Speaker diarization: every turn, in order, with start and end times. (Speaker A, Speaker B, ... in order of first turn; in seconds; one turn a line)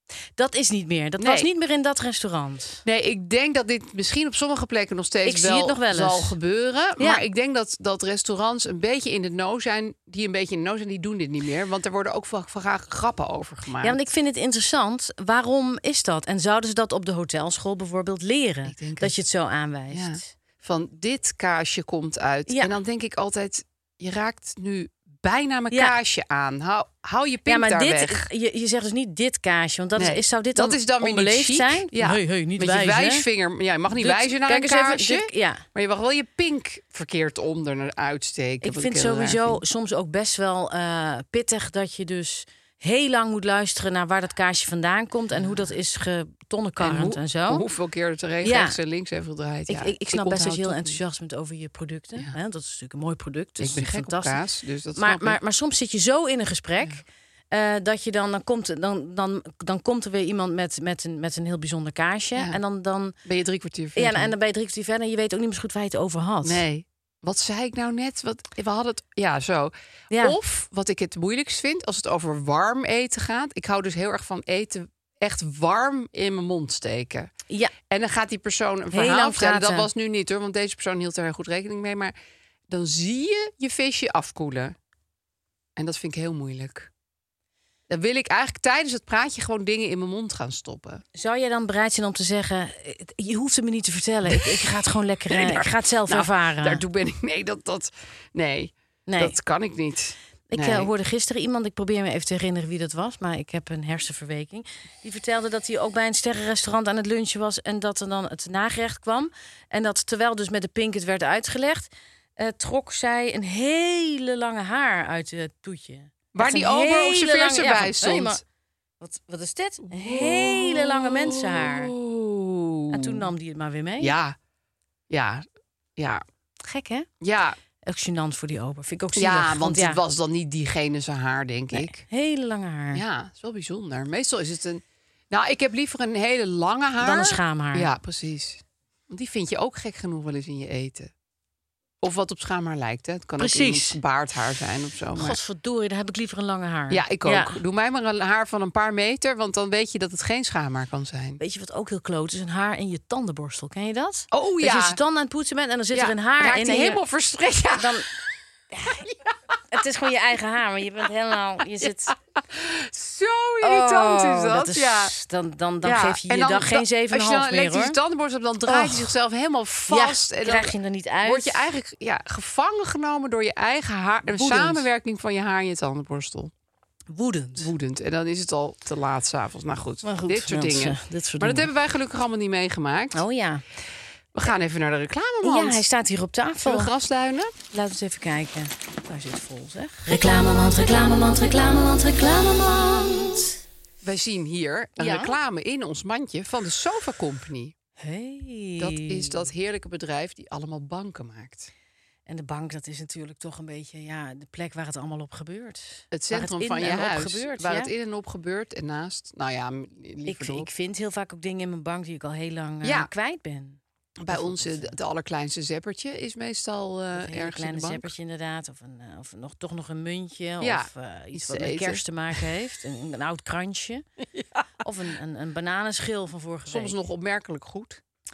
Speaker A: 0.4-2.8
Speaker B: 1.2-1.5
Speaker B: 2.9-14.0
Speaker A: 5.2-6.4
Speaker A: 7.0-7.2
Speaker A: 13.8-20.3
Speaker B: 18.7-19.1
Speaker B: 19.9-28.3
Speaker A: 27.5-33.2
Speaker B: 30.0-39.6
Speaker A: 34.0-35.6
Speaker A: 38.6-47.6
Speaker B: 45.3-45.7
Speaker B: 46.8-51.0
Speaker A: 48.4-48.8
Speaker A: 49.7-54.4
Speaker B: 53.6-55.4
Speaker A: 55.0-63.1
Speaker B: 63.2-64.3
Speaker A: 64.0-66.6
Speaker B: 66.4-77.3
Speaker A: 70.1-70.4
Speaker B: 77.9-82.1
Speaker A: 78.9-79.9
Speaker B: 82.7-84.8
Speaker B: 85.8-86.9
Speaker B: 87.9-91.0
Speaker A: 91.2-96.8
Speaker B: 94.3-94.7
Speaker B: 95.3-100.9
Speaker A: 99.1-99.4
Speaker A: 100.5-118.4
Speaker B: 116.3-118.4
Speaker A: 119.0-121.9
Speaker B: 119.9-123.3
Speaker A: 122.9-124.1
Speaker B: 124.0-124.4
Speaker B: 125.1-125.5
Speaker B: 126.0-126.2
Speaker A: 126.7-127.1
Speaker B: 127.2-127.6
Speaker A: 127.8-130.0
Speaker B: 129.2-132.0
Speaker A: 131.7-133.0
Speaker B: 132.9-141.1
Speaker A: 137.0-137.9
Speaker B: 142.0-145.4
Speaker A: 143.4-144.0
Speaker A: 145.2-147.6
Speaker B: 146.9-151.4
Speaker A: 151.4-157.0
Speaker B: 154.3-155.0
Speaker B: 155.9-158.1
Speaker A: 157.8-158.1
Speaker A: 158.7-159.1
Speaker B: 158.9-159.3
Speaker A: 159.7-162.2
Speaker B: 161.8-165.1
Speaker A: 163.6-168.0
Speaker B: 165.8-176.5
Speaker A: 168.7-169.1
Speaker A: 169.9-171.6
Speaker A: 174.3-174.9
Speaker A: 177.1-177.7
Speaker B: 177.6-183.2
Speaker A: 180.0-181.7
Speaker A: 183.1-183.6
Speaker B: 184.3-185.8
Speaker A: 185.4-186.9
Speaker B: 186.6-187.5
Speaker A: 187.7-193.6
Speaker B: 194.0-197.7
Speaker A: 195.0-195.4
Speaker A: 198.0-199.5
Speaker B: 198.8-201.7
Speaker A: 202.3-207.9
Speaker B: 206.1-210.7
Speaker A: 210.3-215.0
Speaker B: 212.8-213.1
Speaker B: 214.2-218.1
Speaker A: 217.1-224.1
Speaker B: 220.6-222.4
Speaker A: 224.8-226.9
Speaker B: 226.7-228.0